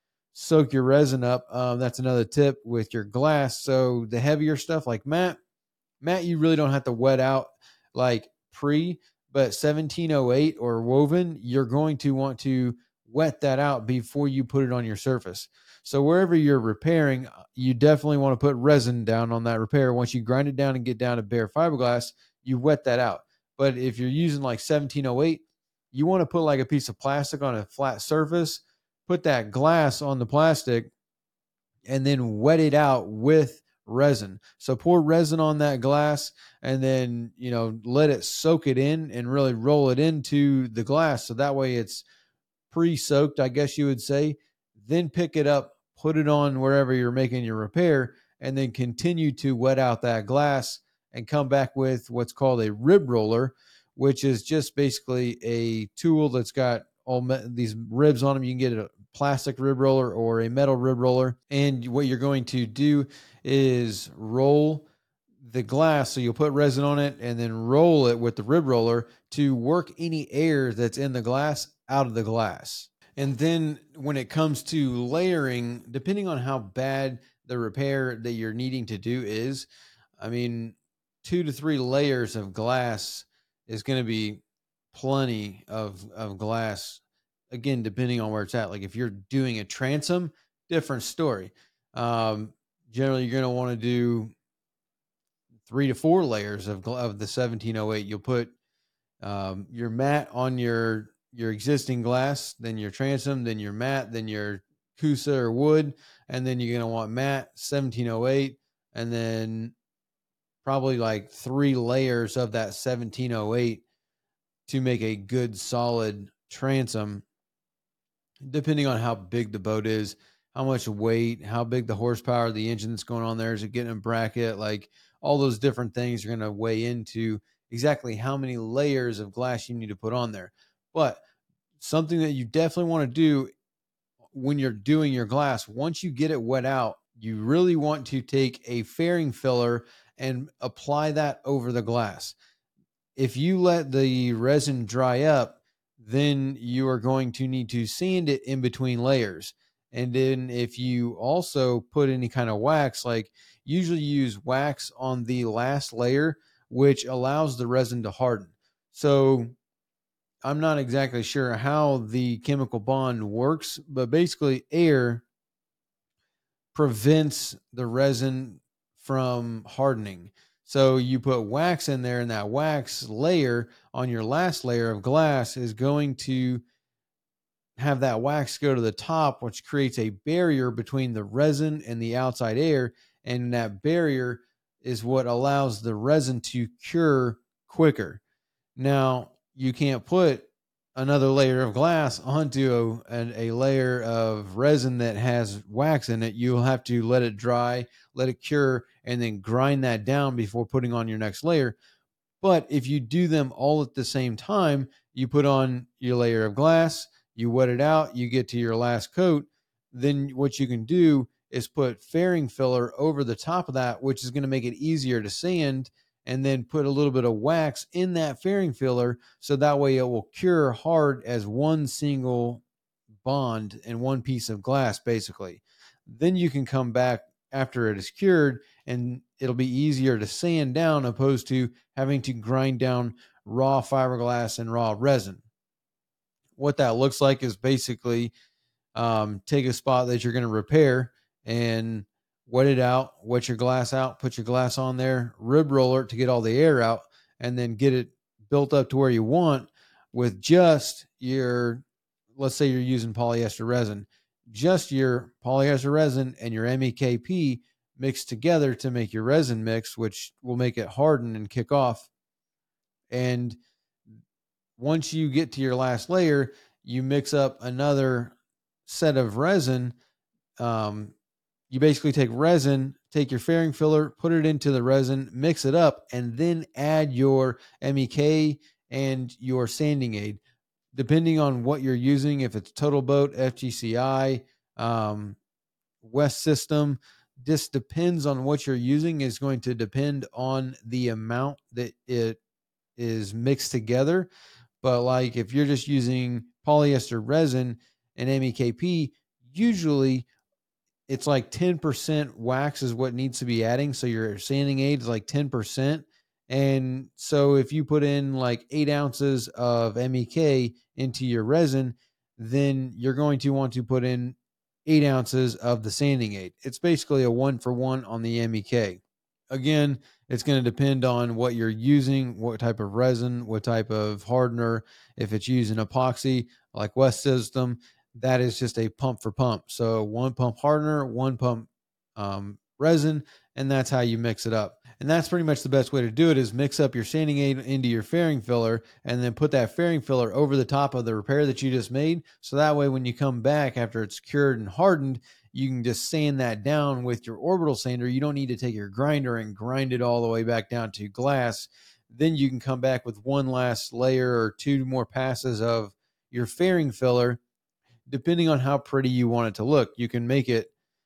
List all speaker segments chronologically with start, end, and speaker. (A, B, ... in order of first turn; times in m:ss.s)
0:00.3-0:05.4 A
0:06.0-0:30.9 A
0:31.9-0:42.0 A
0:42.7-1:04.9 A
1:05.4-1:19.7 A
1:20.2-1:24.4 A
1:24.9-1:34.3 A
1:35.7-1:38.5 A
1:39.2-1:49.7 A
1:50.6-1:53.8 A
1:54.7-1:57.2 A
1:58.5-2:11.2 A
2:11.8-2:13.5 A
2:14.3-2:22.3 A
2:23.2-2:39.5 A
2:40.4-2:45.2 A
2:46.7-2:56.6 A
2:57.8-3:08.2 A
3:08.8-3:21.8 A
3:22.4-3:42.6 A
3:43.2-3:55.4 A
3:56.6-3:58.3 A
3:58.9-4:11.8 A
4:12.4-4:22.1 A
4:23.1-4:23.6 A
4:24.8-4:28.3 A
4:28.8-4:29.9 A
4:30.6-4:31.1 A
4:31.7-4:40.4 A
4:40.9-4:45.4 A
4:46.0-4:52.4 A
4:53.0-4:54.3 A
4:54.8-5:00.2 A
5:01.1-5:19.0 A
5:19.5-5:57.4 A
5:58.1-6:00.7 A